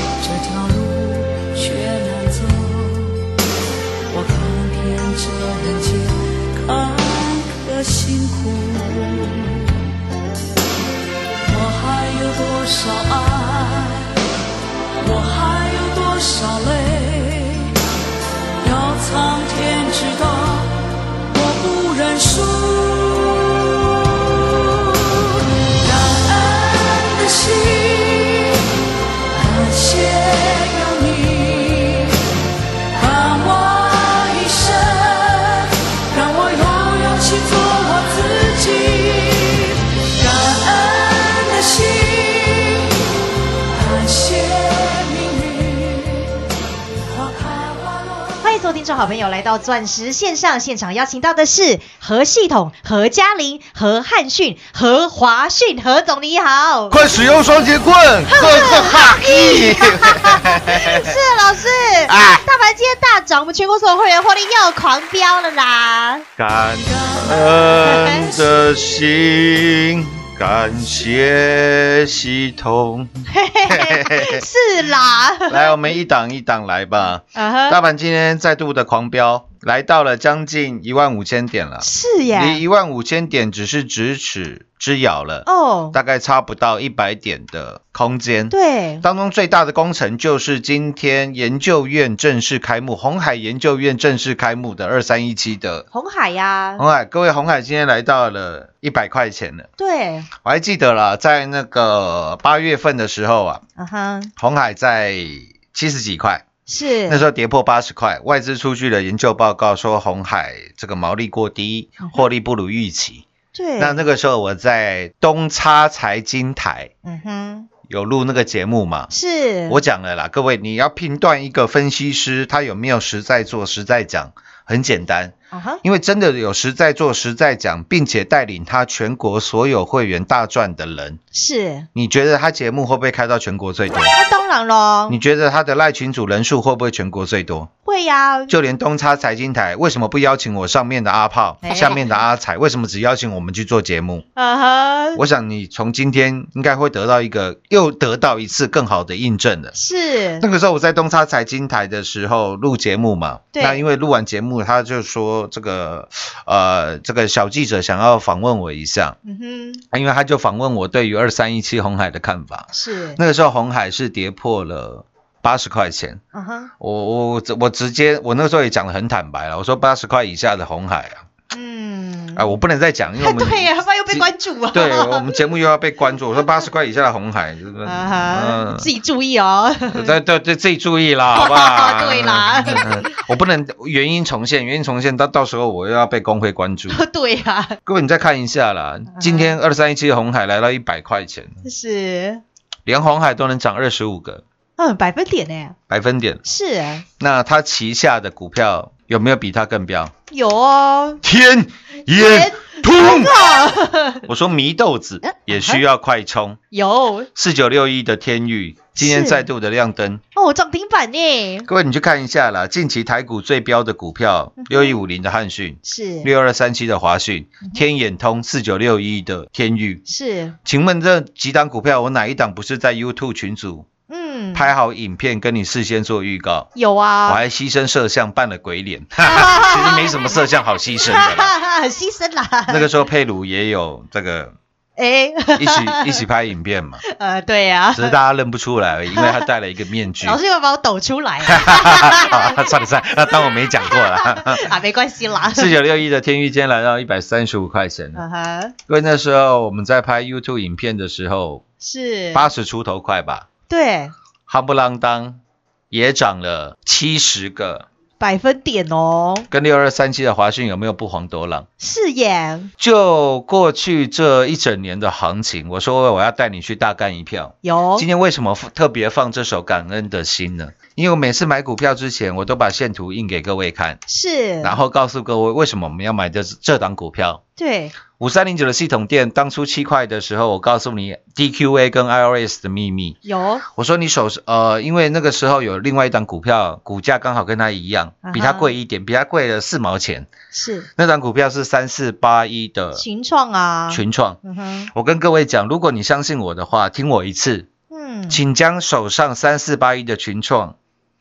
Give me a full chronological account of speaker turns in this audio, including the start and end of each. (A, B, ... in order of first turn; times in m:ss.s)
0:00.2-0:03.3 A
0:04.1-0:09.8 A
0:11.4-0:14.2 A
0:15.0-0:17.7 A
0:18.6-0:28.6 A
0:29.3-0:32.2 A
0:32.9-0:43.0 A
0:43.7-0:46.4 A
0:47.1-0:48.4 A
0:48.4-0:57.0 B
0:56.9-1:01.1 C
0:58.3-1:06.2 B
1:02.1-1:02.4 C
1:06.4-1:14.4 C
1:06.8-1:08.6 A
1:07.8-1:08.2 B
1:13.3-1:15.8 B
1:15.5-1:35.9 C
1:17.3-1:17.8 B
1:21.8-1:22.6 B
1:25.4-1:26.0 B
1:28.5-1:29.0 B
1:35.9-1:36.8 B
1:36.8-1:39.7 C
1:39.8-1:40.3 B
1:40.4-1:43.6 C
1:43.8-1:44.3 B
1:44.4-1:46.4 C
1:46.7-1:47.2 B
1:47.1-1:53.2 C
1:53.5-1:54.0 B
1:53.8-1:56.9 C
1:57.0-1:57.7 B
1:57.9-1:59.1 C
1:59.1-1:59.8 B
1:59.7-2:11.2 C
2:05.5-2:05.8 B
2:11.3-2:11.9 B
2:11.9-2:14.1 C
2:14.1-2:15.2 B
2:15.1-2:17.7 C
2:17.8-2:18.5 B
2:18.5-2:24.2 C
2:21.6-2:22.0 B
2:24.4-2:25.2 B
2:25.1-2:29.7 C
2:29.7-2:30.4 B
2:30.4-2:39.2 C
2:33.5-2:33.8 B
2:39.2-2:39.8 B
2:39.9-2:46.2 C
2:42.7-2:43.2 B
2:46.3-2:46.7 B
2:46.8-2:51.2 C
2:51.5-2:52.5 B
2:52.3-2:58.9 C
2:53.2-2:55.3 B
2:57.8-3:00.1 B
2:59.9-3:07.0 C
3:01.3-3:03.1 B
3:06.9-3:07.8 B
3:07.8-3:11.6 C
3:09.1-3:09.5 B
3:11.6-3:12.4 B
3:12.8-3:14.4 C
3:14.8-3:15.8 B
3:15.9-3:16.4 C
3:16.4-3:17.0 B
3:17.2-3:20.1 C
3:20.3-3:21.2 B
3:21.2-3:23.4 C
3:22.1-3:24.2 B
3:24.2-3:26.6 C
3:25.2-3:25.8 B
3:26.7-3:27.3 B
3:27.3-3:30.2 C
3:29.0-3:29.5 B
3:30.3-3:31.7 B
3:31.6-3:40.0 C
3:34.6-3:35.0 B
3:35.8-3:36.3 B
3:40.1-3:40.5 B
3:40.6-3:43.9 C
3:44.1-3:44.7 B
3:44.5-3:46.7 C
3:46.7-3:47.4 B
3:47.2-3:51.5 C
3:49.2-3:50.1 B
3:51.0-3:52.9 B
3:52.7-3:54.6 C
3:55.0-3:56.2 B
3:55.6-3:57.0 C
3:57.0-3:58.2 B
3:57.9-4:00.4 C
3:59.1-3:59.4 B
4:00.2-4:02.7 B
4:01.4-4:04.7 C
4:03.3-4:05.8 B
4:05.5-4:08.2 C
4:08.2-4:08.7 B
4:08.9-4:11.6 C
4:11.8-4:12.5 B
4:12.3-4:13.5 C
4:13.7-4:14.1 B
4:14.5-4:15.4 C
4:15.9-4:17.8 C
4:18.2-4:19.5 B
4:19.5-4:21.7 C
4:21.8-4:22.7 B
4:22.8-4:34.0 C
4:27.6-4:28.0 B
4:34.1-4:34.8 B
4:34.6-4:37.4 C
4:37.6-4:37.9 B
4:38.2-4:43.2 C
4:43.2-4:43.6 B
4:43.7-4:50.3 C
4:48.2-4:48.7 B
4:50.5-4:50.9 B
4:51.0-4:53.0 C
4:52.9-4:54.9 B
4:53.9-4:54.4 C
4:54.9-4:57.7 C
4:57.9-4:58.4 B
4:58.3-5:00.8 C